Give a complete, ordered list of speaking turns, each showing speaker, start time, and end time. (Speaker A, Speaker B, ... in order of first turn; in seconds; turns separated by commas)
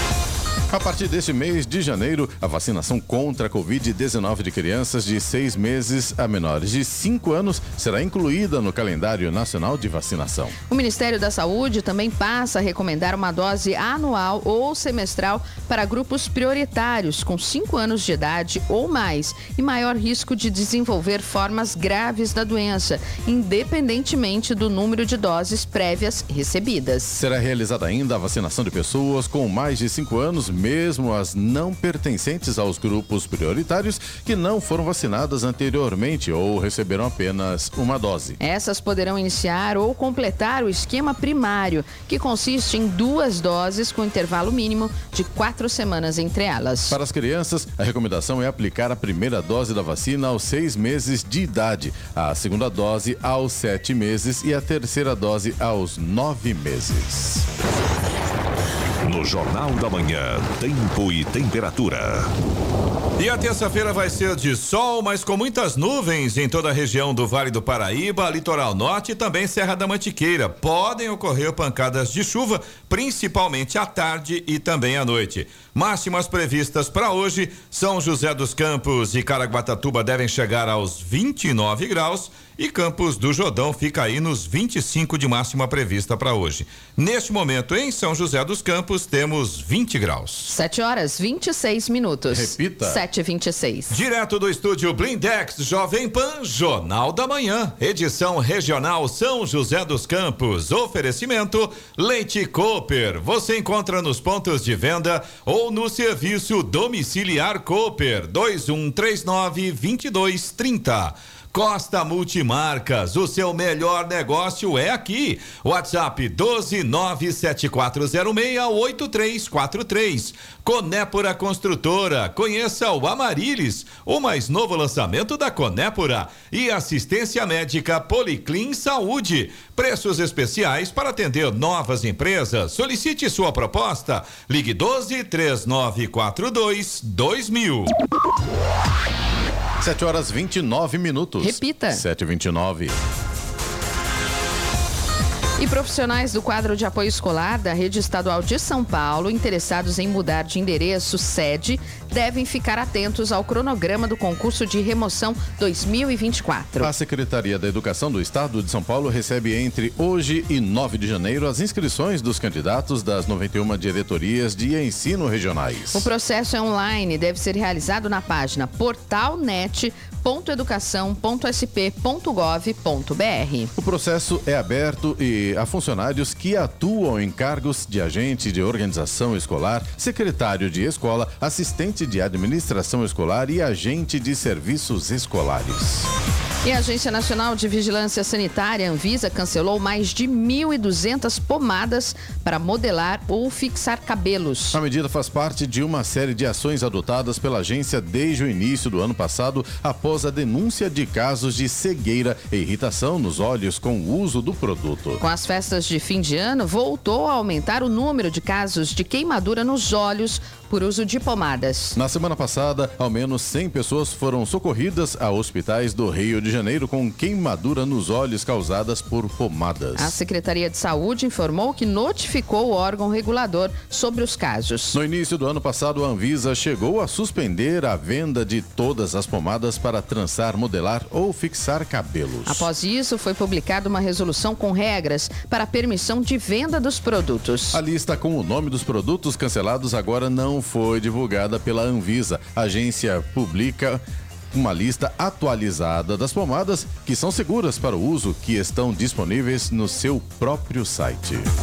Speaker A: 0.7-10.6, Speaker B: 10.7-27.2, Speaker A: 27.1-38.4, Speaker B: 38.4-47.0, Speaker A: 46.9-57.5, Speaker C: 59.0-62.3, Speaker D: 63.2-90.5, Speaker B: 90.5-94.0, Speaker A: 92.3-93.0, Speaker D: 93.9-137.9, Speaker A: 139.8-143.0, Speaker B: 141.4-142.0, Speaker B: 145.6-156.9, Speaker A: 156.8-166.1, Speaker B: 165.9-173.7, Speaker A: 173.8-186.1, Speaker B: 186.6-194.8, Speaker A: 194.7-205.2, Speaker B: 205.2-212.0, Speaker A: 211.9-220.2, Speaker B: 220.0-225.0, Speaker A: 224.9-232.7, Speaker B: 232.5-237.8, Speaker A: 237.7-244.0, Speaker A: 244.5-251.5